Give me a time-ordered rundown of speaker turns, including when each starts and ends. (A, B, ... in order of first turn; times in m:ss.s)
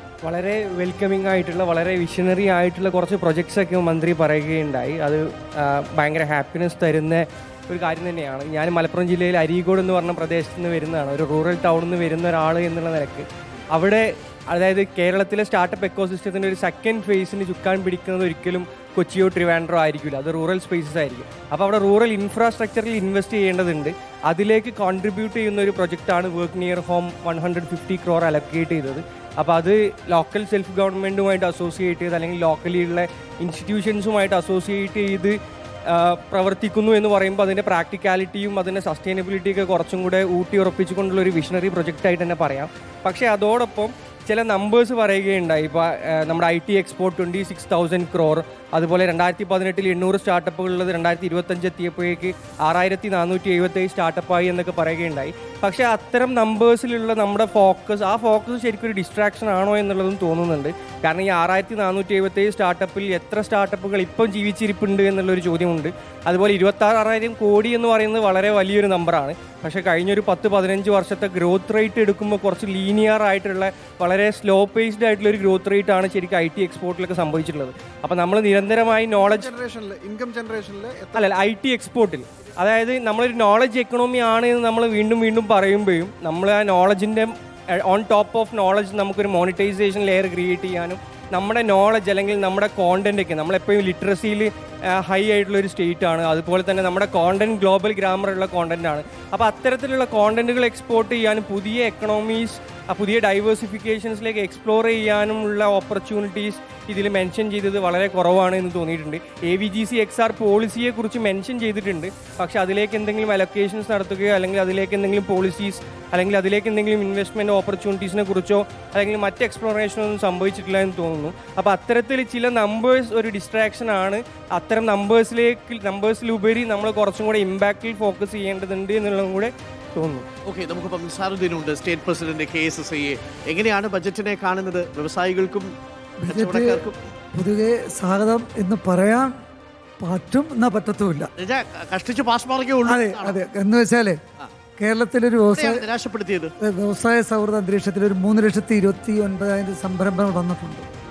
0:00.2-0:35.4 A
0:35.9-1:19.5 A
1:19.1-1:21.3 B
1:21.1-2:10.2 A
2:10.4-2:15.7 C
2:16.2-2:19.3 D
2:16.3-2:17.0 C
2:20.0-2:21.3 D
2:21.4-2:23.4 C
2:22.8-2:24.2 D
2:24.8-2:25.8 D
2:25.5-2:26.5 C
2:26.6-2:30.9 D